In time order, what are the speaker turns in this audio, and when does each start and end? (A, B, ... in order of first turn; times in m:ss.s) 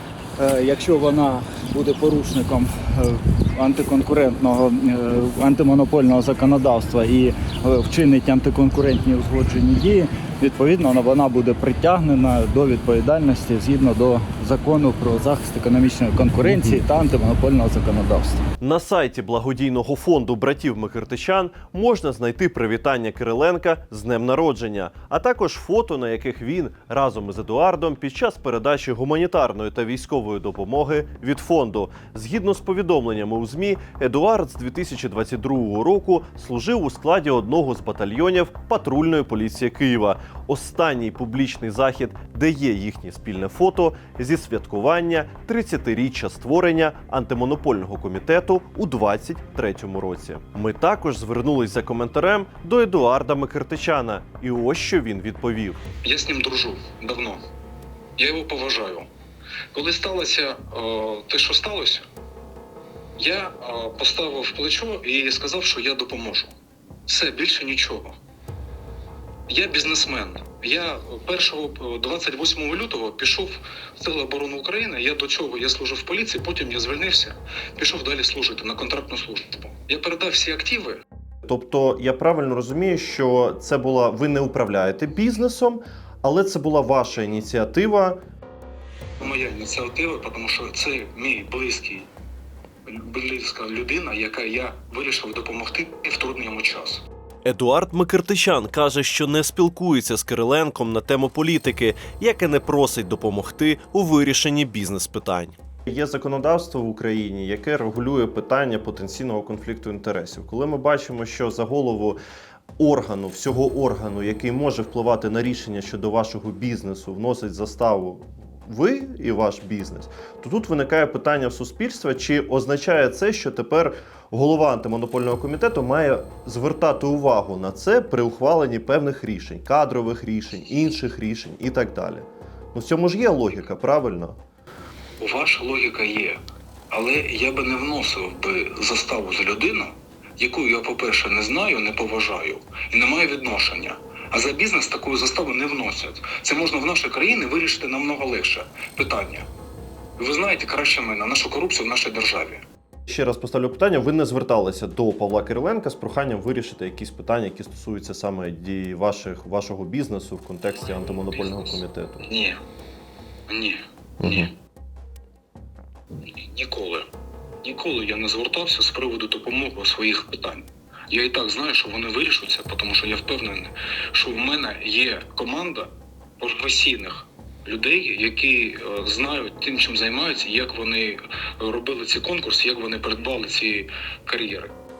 0:00.4-0:18.4 A
0:18.6-0:55.8 B
0:56.0-0:57.4 C
0:58.2-0:59.1 C
0:59.7-1:02.0 C
1:03.2-1:06.5 C
1:07.1-1:08.2 C
1:09.5-1:21.0 C
1:21.4-1:28.2 B
1:29.2-1:32.1 C
1:32.9-1:37.0 C
1:37.4-1:52.2 B
1:52.8-2:14.4 B
2:15.2-2:16.4 C
2:16.9-2:29.4 C
2:30.2-2:32.6 C
2:33.1-2:42.2 B
2:40.9-2:42.6 C
2:43.5-2:44.5 C
2:44.2-2:44.5 B
2:46.5-2:47.1 C
2:47.6-3:04.7 C